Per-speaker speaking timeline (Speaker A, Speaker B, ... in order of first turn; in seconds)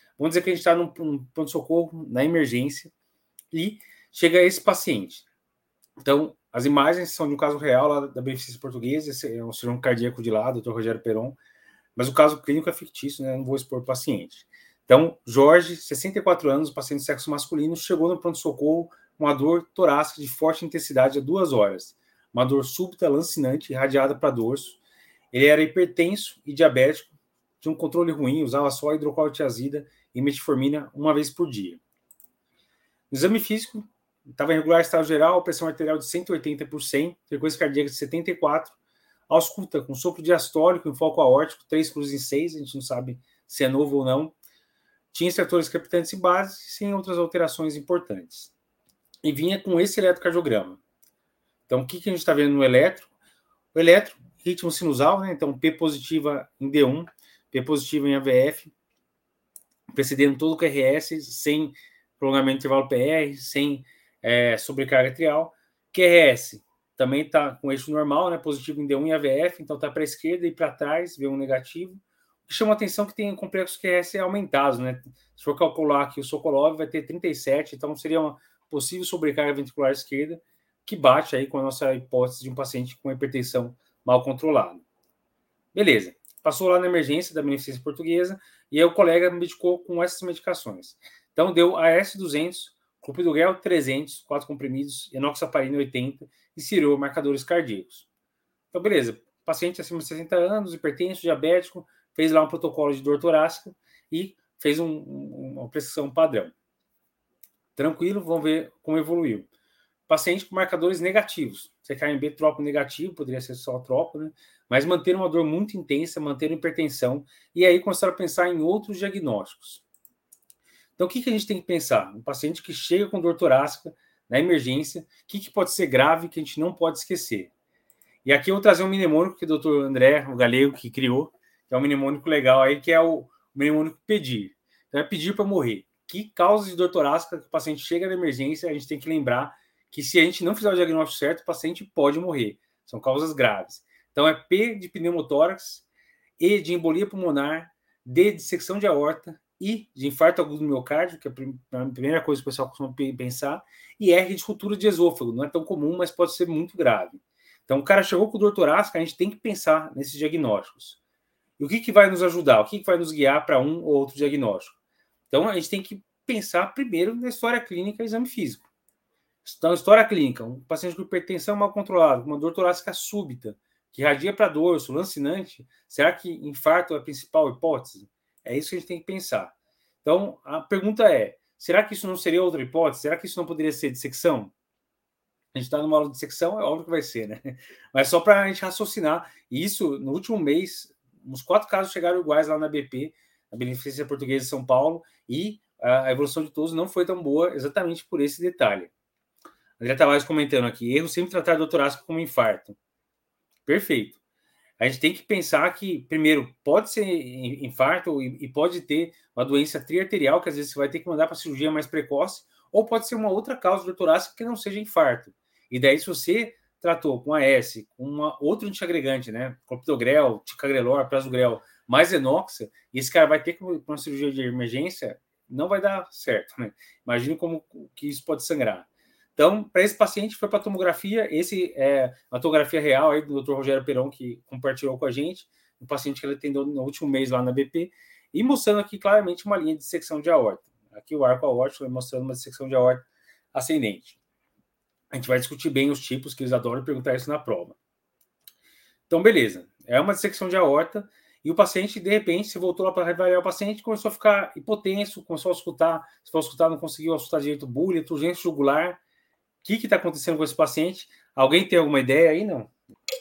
Speaker A: 0.2-2.9, 3.5-5.2, 6.0-11.4, 11.9-24.8, 25.3-31.8, 33.1-38.8, 39.3-44.3, 45.1-48.5, 49.2-50.8, 51.7-53.1, 53.7-58.7, 59.9-84.8, 85.7-98.1, 98.7-106.5, 107.8-109.5, 110.1-119.8, 121.0-127.5, 128.2-145.8, 146.4-161.0, 161.6-164.8, 165.3-168.6, 169.4-184.5, 185.5-198.9, 199.8-202.8, 203.7-204.2, 204.8-244.2, 245.1-247.8, 249.1-259.0, 259.6-262.7